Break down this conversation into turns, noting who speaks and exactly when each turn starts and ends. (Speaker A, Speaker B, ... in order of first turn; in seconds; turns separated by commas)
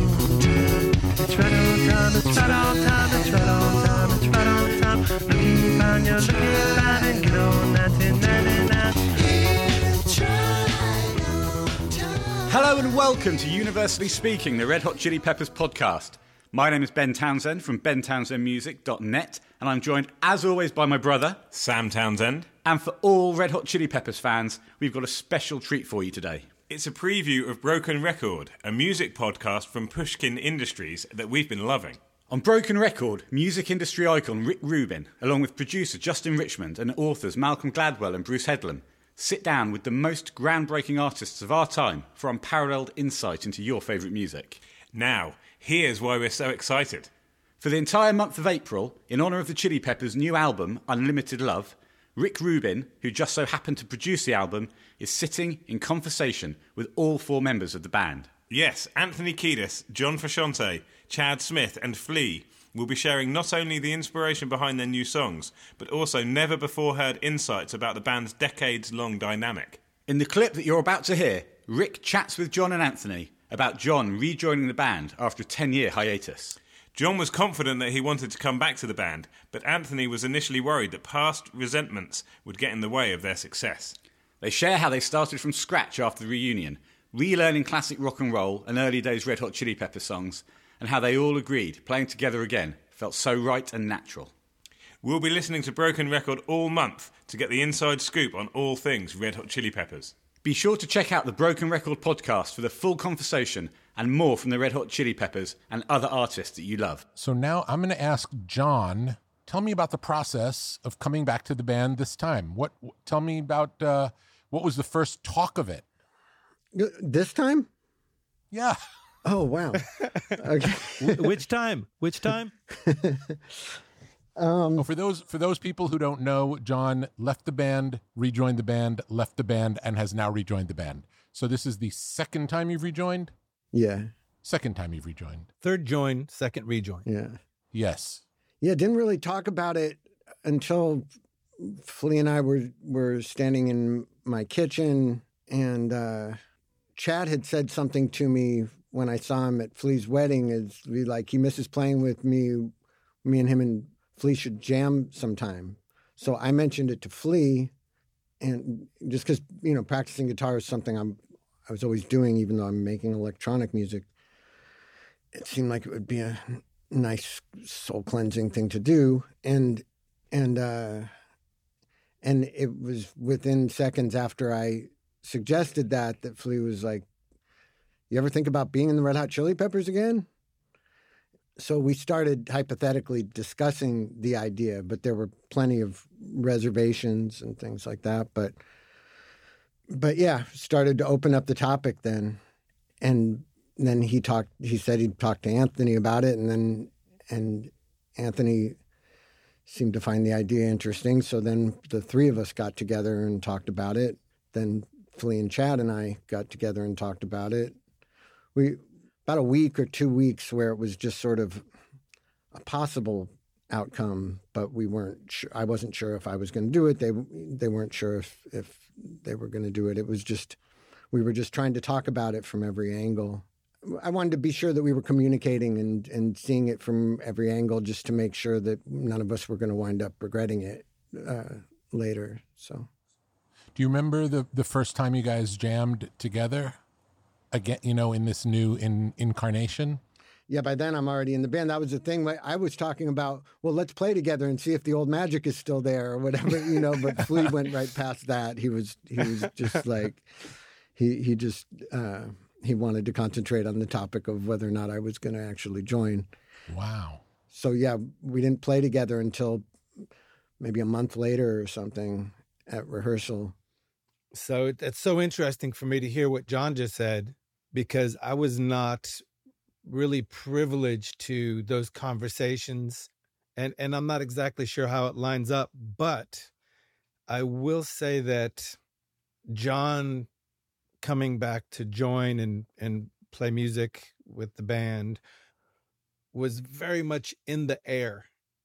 Speaker A: 1.2-8.8, Speaker B: 12.4-21.4, Speaker A: 21.5-22.5, Speaker B: 22.6-26.5, Speaker A: 26.7-32.0, Speaker B: 32.3-44.6, Speaker A: 44.9-47.1, Speaker B: 47.6-58.3, Speaker A: 58.5-69.8, Speaker B: 70.1-76.5, Speaker A: 76.9-83.9, Speaker B: 84.4-94.3, Speaker A: 95.0-100.1, Speaker B: 100.4-107.0, Speaker C: 107.2-115.8, Speaker D: 116.7-117.7, Speaker D: 119.2-119.8, Speaker D: 120.3-121.3, Speaker E: 121.0-122.5, Speaker D: 122.8-123.3, Speaker D: 124.4-124.9, Speaker C: 124.8-133.3, Speaker D: 133.7-134.1, Speaker C: 134.4-135.5, Speaker E: 135.6-137.1, Speaker D: 137.1-137.4, Speaker C: 137.7-138.2, Speaker D: 138.6-141.1, Speaker D: 141.6-146.3, Speaker D: 146.9-152.7, Speaker D: 153.2-157.7, Speaker D: 158.4-164.1, Speaker D: 165.3-171.1, Speaker D: 172.2-177.1, Speaker D: 178.1-180.2, Speaker D: 181.6-188.6, Speaker D: 189.9-192.4, Speaker D: 193.0-198.8, Speaker D: 199.7-207.8, Speaker D: 208.5-211.6, Speaker D: 212.5-220.6, Speaker D: 221.1-232.8, Speaker C: 233.7-236.8, Speaker C: 237.5-240.0, Speaker D: 240.5-250.2, Speaker D: 250.9-256.3, Speaker C: 256.7-257.2, Speaker D: 257.5-259.6, Speaker D: 260.6-263.5, Speaker E: 264.3-269.2, Speaker E: 269.8-276.5, Speaker E: 277.3-278.8, Speaker E: 279.5-280.3, Speaker E: 281.0-285.2, Speaker E: 286.3-288.3